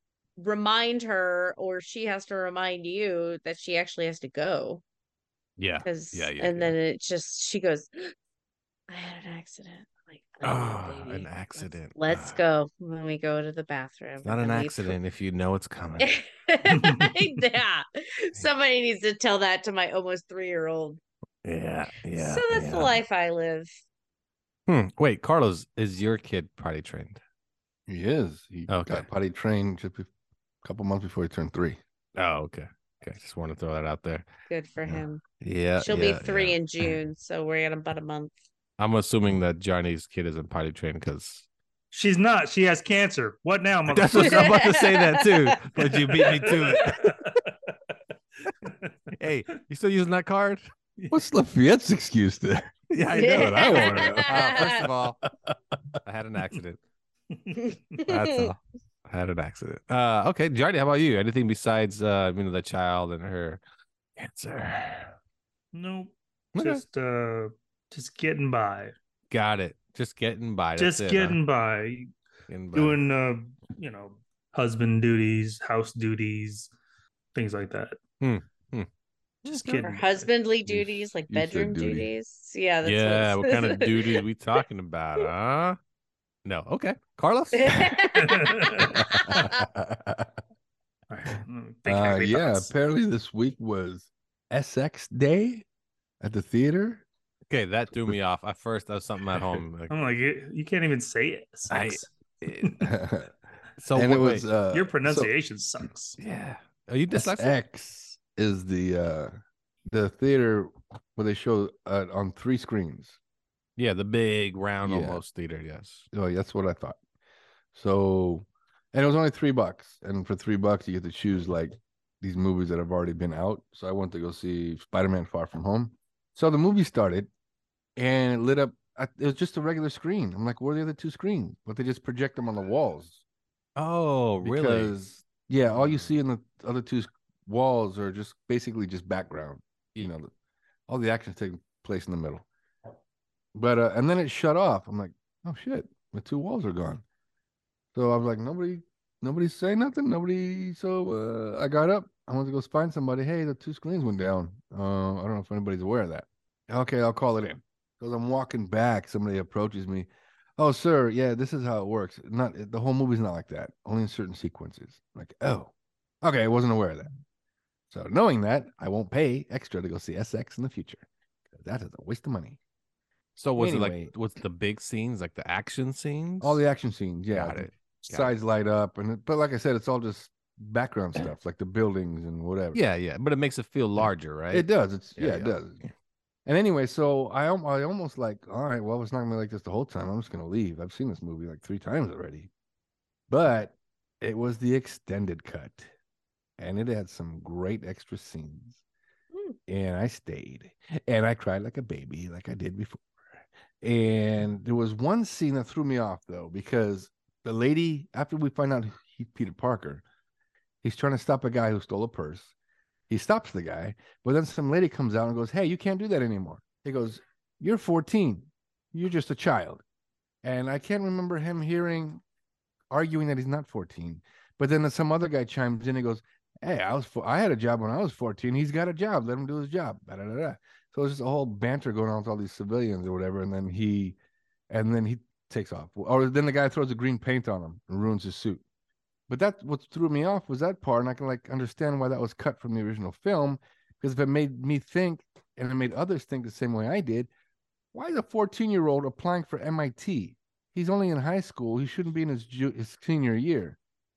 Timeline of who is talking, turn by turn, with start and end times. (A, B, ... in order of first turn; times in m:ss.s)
0:00.4-0:04.8 A
0:05.6-0:06.8 B
0:05.8-0:08.1 A
0:08.9-0:15.0 A
0:10.4-0:12.4 B
0:14.2-0:16.1 B
0:16.0-0:21.0 A
0:16.7-0:17.1 C
0:21.4-0:23.0 B
0:22.1-0:23.7 A
0:24.7-0:27.2 B
0:27.9-0:30.1 D
0:28.7-0:29.1 B
0:30.6-0:31.8 D
0:32.2-0:34.2 B
0:34.5-0:35.2 A
0:34.9-0:37.0 B
0:35.8-0:38.3 A
0:38.8-0:41.5 B
0:41.9-0:44.6 C
0:43.9-0:47.2 B
0:44.2-0:45.5 A
0:45.8-0:47.5 C
0:48.6-0:48.9 C
0:49.2-0:50.6 B
0:51.1-0:52.7 D
0:52.9-0:55.2 B
0:53.1-0:54.9 A
0:53.4-0:54.7 D
0:56.0-0:56.8 B
0:57.6-0:58.5 A
0:58.1-1:03.6 B
1:04.2-1:05.1 B
1:05.7-1:08.9 C
1:06.6-1:06.8 B
1:09.3-1:11.4 B
1:10.8-1:12.1 C
1:12.5-1:13.0 B
1:12.7-1:16.7 C
1:17.3-1:18.0 C
1:18.2-1:18.9 B
1:19.4-1:20.0 B
1:19.4-1:20.1 C
1:19.8-1:24.2 A
1:20.7-1:22.1 D
1:22.8-1:25.8 B
1:26.4-1:28.0 B
1:27.5-1:29.6 A
1:28.2-1:29.0 C
1:29.0-1:30.3 D
1:31.1-1:32.7 C
1:31.9-1:35.6 D
1:36.2-1:37.1 D
1:37.5-1:39.9 B
1:39.9-1:42.1 C
1:41.7-1:42.8 B
1:42.8-1:43.3 D
1:43.8-1:44.5 B
1:43.9-1:45.3 D
1:44.7-1:46.2 C
1:46.2-1:47.5 B
1:47.1-1:49.3 D
1:49.9-1:53.2 D
1:53.8-1:56.1 B
1:54.8-1:55.2 D
1:56.1-1:57.0 D
1:57.7-2:07.3 D
2:08.0-2:13.2 D
2:13.8-2:14.9 B
2:14.4-2:20.3 D
2:15.7-2:16.1 B
2:20.9-2:22.5 D
2:23.6-2:27.0 D
2:27.9-2:47.1 D
2:47.9-2:52.6 D
2:53.4-2:56.6 B
2:53.6-2:54.1 D
2:56.4-3:02.8 D
2:57.3-2:58.3 B
3:02.7-3:05.9 B
3:04.0-3:05.8 D
3:06.5-3:12.5 D
3:13.3-3:15.9 D
3:16.6-3:18.8 D
3:19.7-3:23.1 D
3:23.8-3:30.0 D
3:30.8-3:32.5 D
3:33.1-3:39.8 D
3:40.4-3:42.2 D
3:42.9-3:54.2 D
3:54.7-3:58.6 D
3:59.3-4:07.3 D
4:07.9-4:13.8 D